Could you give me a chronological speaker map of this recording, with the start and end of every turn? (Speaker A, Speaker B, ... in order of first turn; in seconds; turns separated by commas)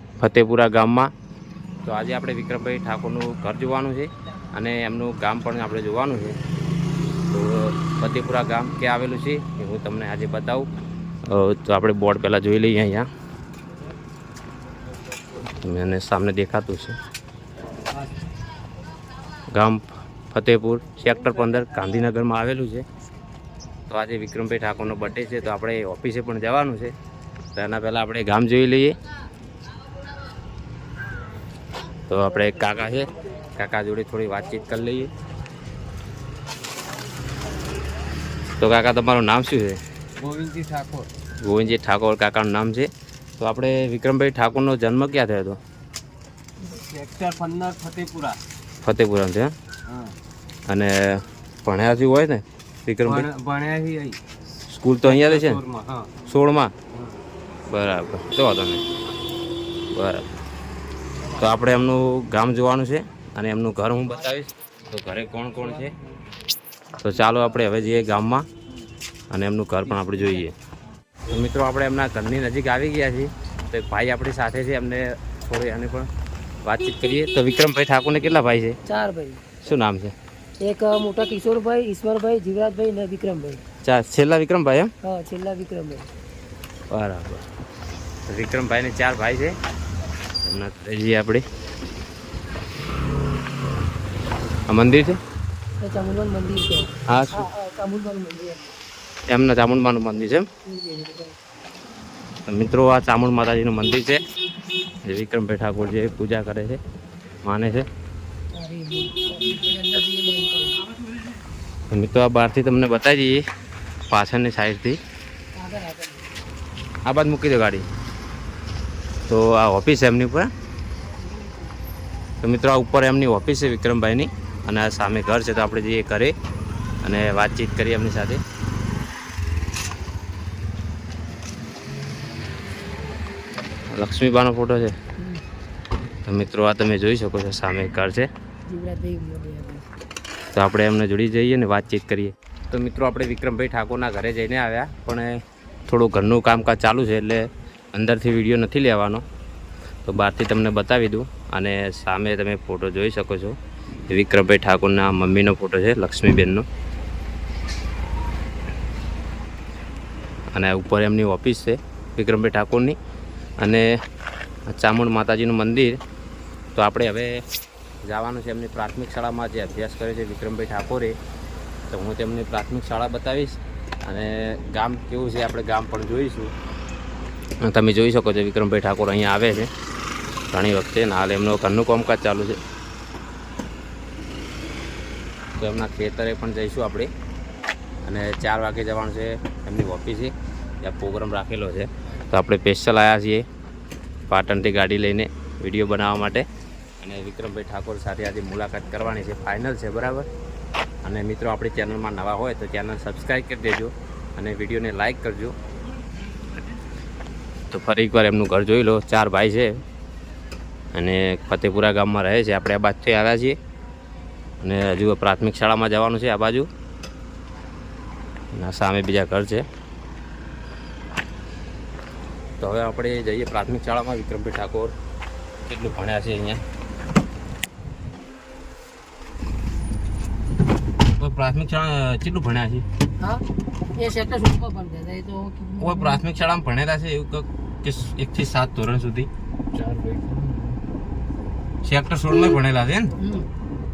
Speaker A: 0.2-1.1, Speaker A: 1.8-6.4, Speaker A: 7.3-10.7, Speaker A: 11.2-13.1, Speaker A: 15.5-17.0, Speaker A: 19.5-22.9, Speaker A: 23.9-26.9, Speaker A: 27.6-29.0, Speaker A: 32.1-35.1, Speaker A: 38.6-39.8, Speaker B: 40.2-41.1, Speaker A: 41.4-45.6, Speaker B: 46.6-48.4, Speaker A: 48.8-49.5, Speaker B: 49.9-50.1, Speaker A: 50.7-53.3, Speaker B: 53.0-54.2, Speaker A: 54.7-55.6, Speaker B: 55.0-56.1, Speaker A: 56.2-56.7, Speaker A: 57.7-58.8, Speaker A: 59.9-60.3, Speaker A: 61.3-65.9, Speaker A: 67.0-68.5, Speaker A: 69.3-70.5, Speaker A: 71.3-76.1, Speaker A: 76.6-78.8, Speaker C: 78.9-79.4, Speaker A: 79.6-80.1, Speaker C: 80.6-83.6, Speaker A: 83.8-84.9, Speaker C: 85.0-86.1, Speaker A: 86.9-87.4, Speaker A: 88.3-89.5, Speaker A: 90.4-91.4, Speaker A: 94.7-95.2, Speaker C: 95.8-98.8, Speaker A: 97.1-97.5, Speaker A: 99.3-100.5, Speaker C: 100.7-101.4, Speaker A: 102.5-104.2, Speaker A: 105.0-106.8, Speaker A: 107.4-107.9, Speaker C: 108.5-110.8, Speaker A: 111.9-113.4, Speaker A: 114.1-115.0, Speaker C: 115.5-116.3, Speaker A: 117.1-117.9, Speaker A: 119.3-120.5, Speaker C: 121.2-121.7, Speaker A: 122.4-126.3, Speaker A: 127.0-128.4, Speaker A: 133.9-134.9, Speaker A: 136.3-138.3, Speaker C: 138.7-139.9, Speaker A: 140.6-149.2, Speaker A: 150.1-153.6, Speaker A: 154.1-156.7, Speaker A: 160.5-163.0, Speaker A: 163.6-163.9, Speaker A: 164.7-166.0, Speaker A: 166.8-167.4, Speaker A: 168.1-171.2, Speaker A: 171.9-176.5, Speaker A: 177.6-179.7, Speaker A: 180.5-182.6, Speaker A: 185.6-187.1, Speaker A: 188.1-193.5, Speaker A: 194.3-196.4, Speaker A: 197.0-200.3, Speaker A: 201.0-205.6, Speaker A: 207.7-209.8, Speaker A: 210.9-213.6, Speaker A: 214.6-216.7, Speaker A: 218.5-219.7, Speaker A: 222.6-224.9, Speaker A: 225.7-226.6, Speaker A: 231.2-232.8, Speaker C: 234.0-236.2, Speaker A: 235.8-239.3, Speaker B: 239.7-240.8, Speaker A: 241.8-243.1, Speaker C: 243.2-243.5